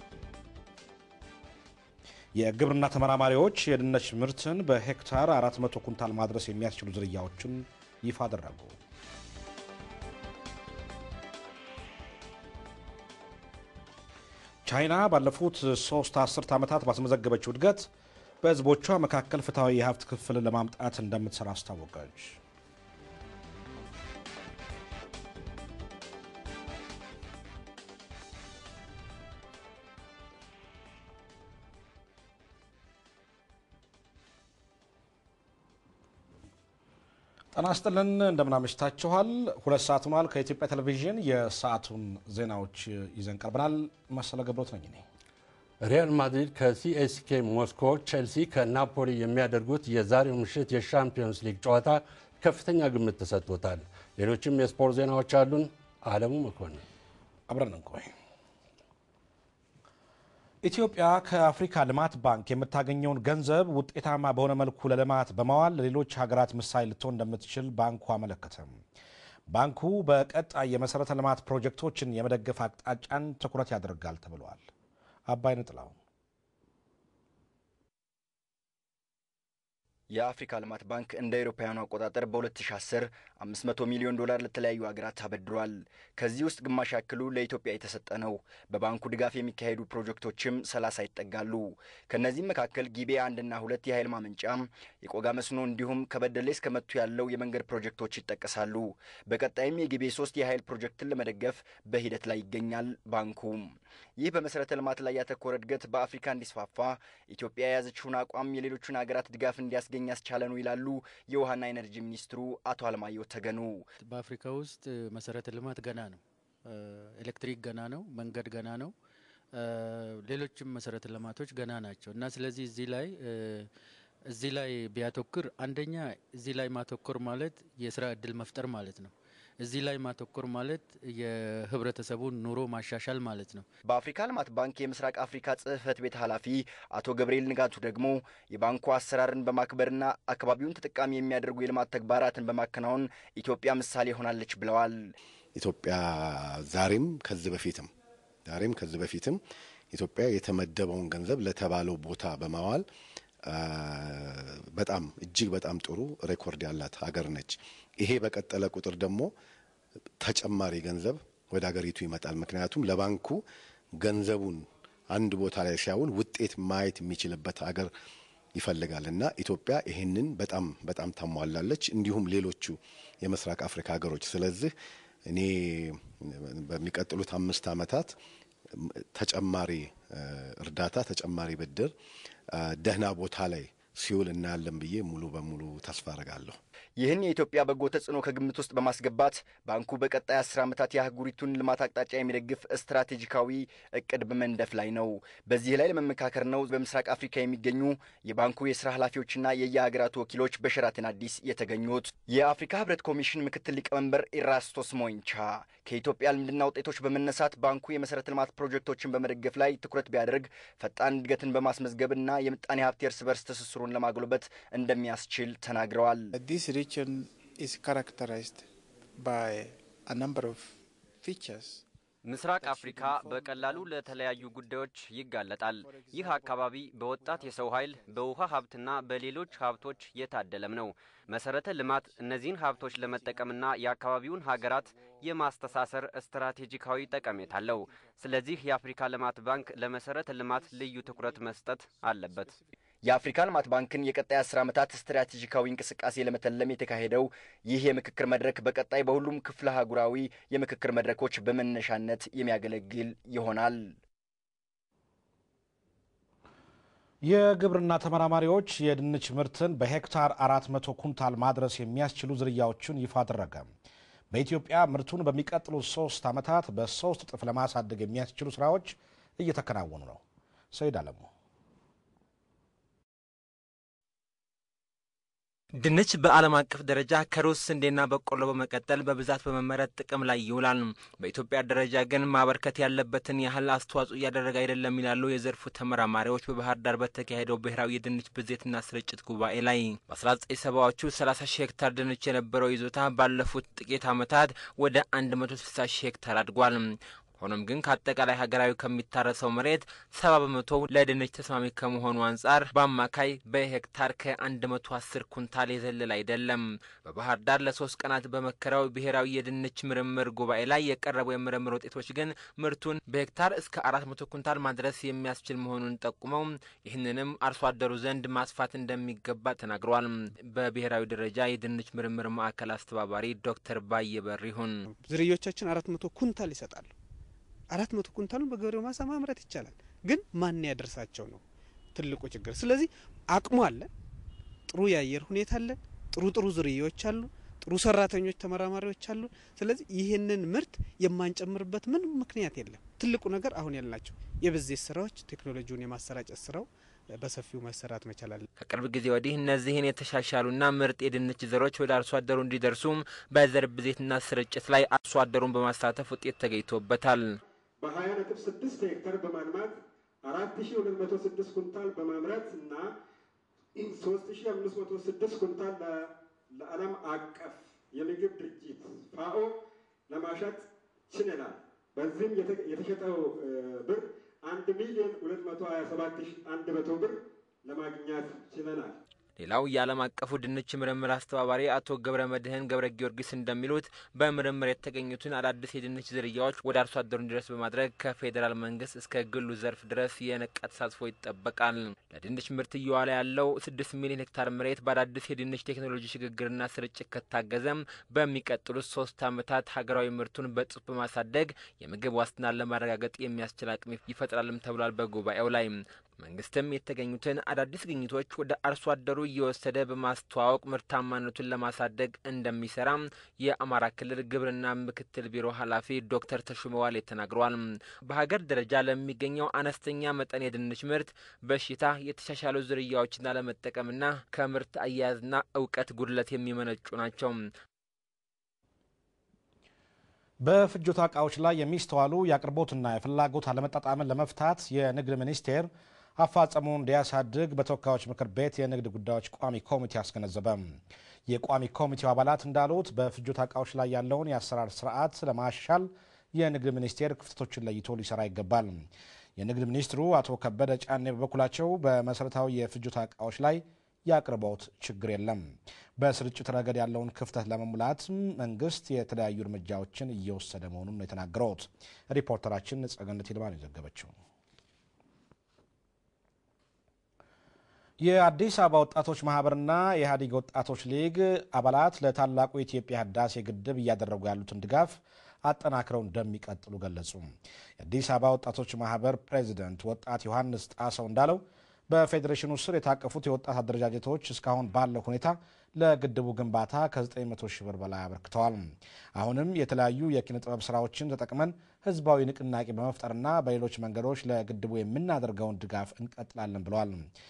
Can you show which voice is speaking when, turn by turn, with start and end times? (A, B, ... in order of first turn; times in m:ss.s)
0:02.4-0:08.8 A
0:14.6-0:17.9 A
0:18.4-0:22.4 A
0:37.5-0:45.0 A
0:45.8-0:56.8 B
0:57.5-0:58.1 A
1:00.6-1:08.8 A
1:09.5-1:14.6 A
1:15.3-1:16.0 A
1:20.1-1:53.9 C
1:54.1-1:58.9 D
1:59.5-2:03.7 D
2:04.3-2:13.6 D
2:13.8-2:25.1 C
2:25.6-2:27.9 E
2:28.5-2:29.4 E
2:29.9-2:32.8 E
2:33.5-2:39.3 E
2:40.2-2:43.4 E
2:44.0-2:47.9 E
2:48.6-2:54.7 E
2:55.3-2:58.2 E
2:58.8-3:01.9 E
3:02.5-3:06.6 E
3:07.0-3:36.3 C
3:36.3-3:38.7 F
3:39.2-3:40.7 F
3:41.2-3:41.8 F
3:42.2-4:02.6 G
3:42.6-3:44.7 F
3:45.8-3:46.4 F
4:03.0-4:14.0 C
4:17.2-4:23.7 A
4:24.3-4:30.2 A
4:30.7-4:31.3 A
4:35.8-5:24.7 H
5:25.1-5:26.9 I
5:27.7-5:31.4 I
5:31.9-5:33.9 I
5:34.7-5:46.7 I
5:47.2-5:48.4 I
5:48.6-5:57.4 H
5:57.8-6:02.9 J
6:03.8-6:19.0 J
6:19.4-7:07.4 H
7:10.4-7:44.1 A
7:48.0-8:17.1 A